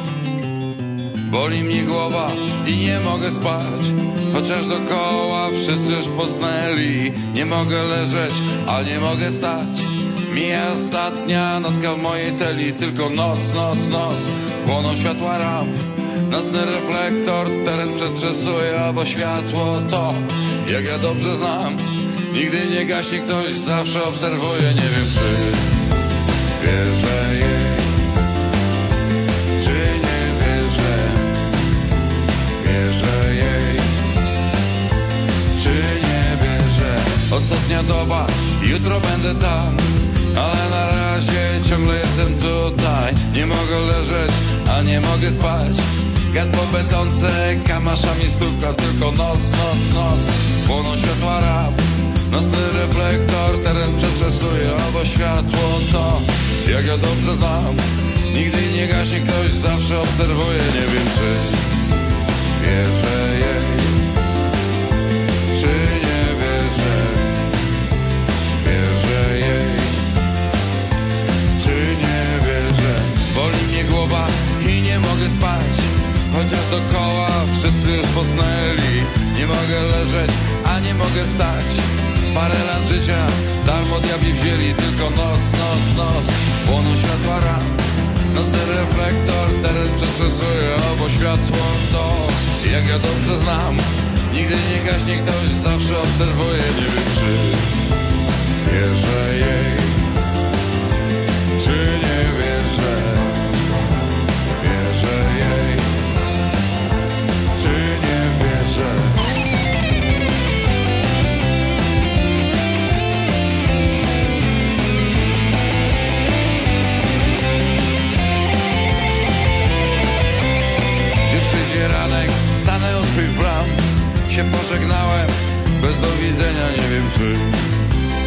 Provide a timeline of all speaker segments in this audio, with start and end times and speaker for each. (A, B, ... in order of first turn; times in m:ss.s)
0:01.2-0:25.8 A
0:26.6-0:28.0 A
0:29.6-0:31.4 A
0:32.6-0:34.2 A
0:35.5-1:01.8 A
1:02.6-1:04.1 A
1:05.5-1:07.5 A
1:08.6-1:10.1 A
1:11.6-1:37.9 A
1:38.6-1:40.2 A
1:41.5-1:43.6 A
1:44.5-1:46.1 A
1:47.5-1:49.3 A
2:01.2-2:07.7 A